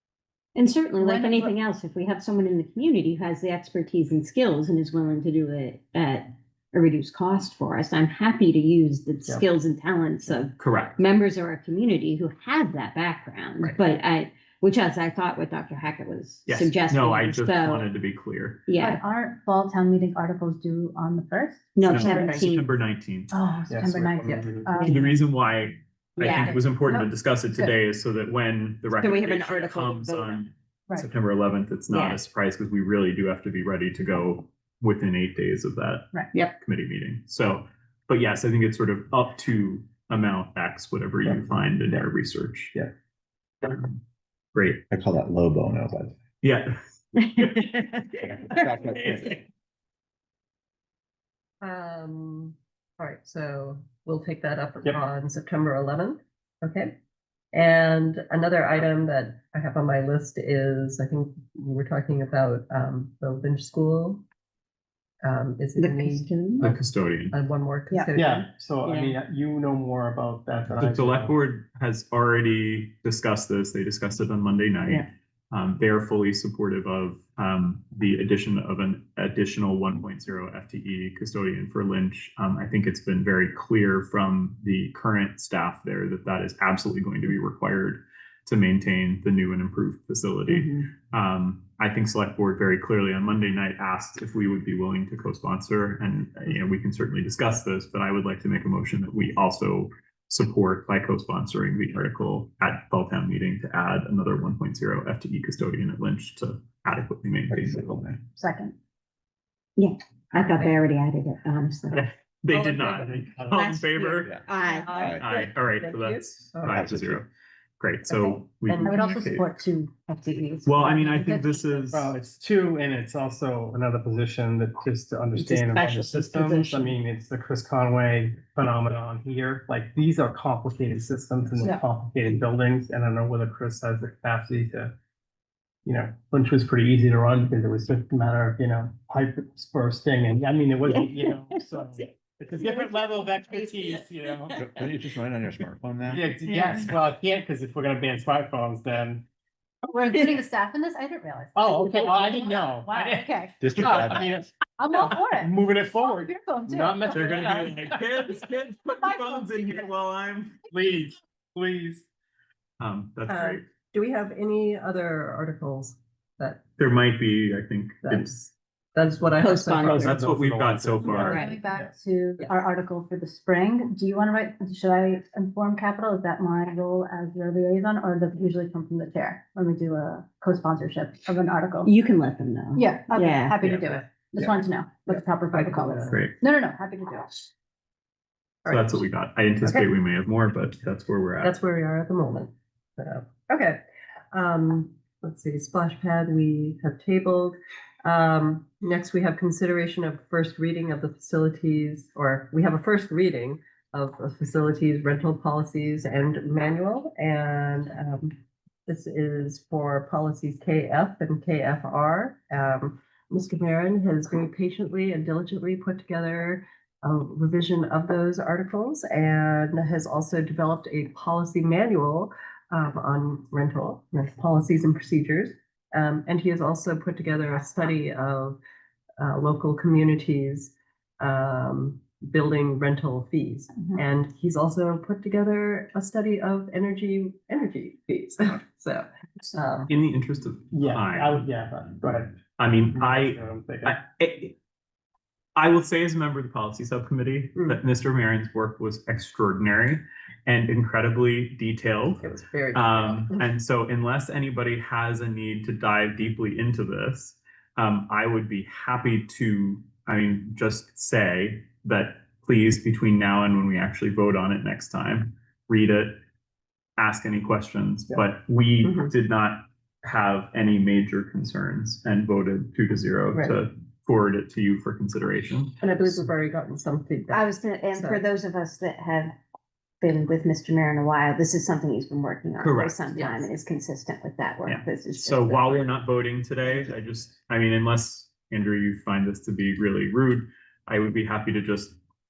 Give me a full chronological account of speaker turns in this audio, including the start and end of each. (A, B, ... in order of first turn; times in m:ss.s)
0:00.6-0:17.9 A
0:01.0-0:01.6 B
0:10.6-0:11.0 C
0:16.5-0:18.7 C
0:18.7-0:19.0 A
0:18.8-0:22.4 B
0:21.8-0:22.7 A
0:21.9-0:23.3 C
0:23.3-0:25.2 B
0:23.7-0:25.0 D
0:24.8-0:42.8 C
0:26.2-0:27.0 A
0:26.3-0:26.9 B
0:29.0-0:30.5 A
0:31.9-0:32.2 A
0:41.3-0:41.5 D
0:43.6-0:44.0 C
0:44.6-0:44.8 C
0:44.9-0:46.1 E
0:46.4-0:46.8 C
0:47.3-0:49.4 C
0:47.4-0:48.0 A
0:48.5-0:49.4 E
0:51.6-0:56.9 F
0:57.5-1:04.2 F
1:05.2-1:08.5 F
1:05.8-1:06.7 A
1:06.6-1:07.4 C
1:08.2-1:11.3 D
1:08.8-1:09.2 A
1:10.8-1:48.1 C
1:47.5-1:48.2 E
1:48.3-1:48.8 B
1:49.8-1:52.0 A
1:50.4-1:50.7 F
1:51.9-1:54.4 C
1:52.5-1:53.2 F
1:53.0-1:53.7 D
1:53.5-1:55.1 A
1:54.7-1:56.9 F
1:54.9-1:55.2 E
1:55.2-1:57.3 C
1:56.7-1:57.2 E
1:57.8-1:59.5 C
1:58.1-1:59.0 F
1:58.8-2:02.0 B
2:00.7-2:02.2 C
2:01.9-2:14.9 D
2:05.4-2:07.0 A
2:15.8-2:24.7 D
2:20.9-2:22.0 A
2:22.6-2:22.9 A
2:23.5-2:24.0 A
2:24.6-2:26.3 E
2:26.1-2:29.2 D
2:26.5-2:26.8 A
2:29.9-2:33.6 B
2:31.6-2:37.9 D
2:33.6-2:34.3 E
2:34.8-2:37.6 B
2:37.1-2:40.6 C
2:38.9-2:39.8 B
2:40.7-2:42.1 D
2:42.8-2:43.6 C
2:43.3-2:46.6 F
2:46.8-2:48.5 C
2:48.0-2:48.3 F
2:49.0-2:50.2 F
2:49.4-2:50.2 A
2:49.8-2:51.9 D
2:50.0-2:51.6 C
2:51.2-3:01.9 B
2:51.2-2:51.6 A
3:01.8-3:03.6 A
3:02.8-3:07.5 B
3:03.6-3:04.5 F
3:05.1-3:06.3 F
3:06.1-3:06.4 C
3:08.6-3:09.1 F
3:08.7-3:11.6 C
3:09.6-3:09.9 F
3:11.4-3:13.8 F
3:14.3-3:48.6 F
3:49.2-3:59.9 F
3:59.9-4:01.5 C
4:00.7-4:04.0 D
4:02.6-4:04.6 C
4:05.6-4:26.2 C
4:12.2-4:13.4 F
4:27.0-4:36.2 C
4:28.8-4:29.1 F
4:33.3-4:33.6 F
4:35.8-4:38.2 F
4:37.3-4:39.3 A
4:40.0-4:45.9 A
4:42.6-4:43.1 C
4:43.2-4:43.5 F
4:44.6-4:52.0 C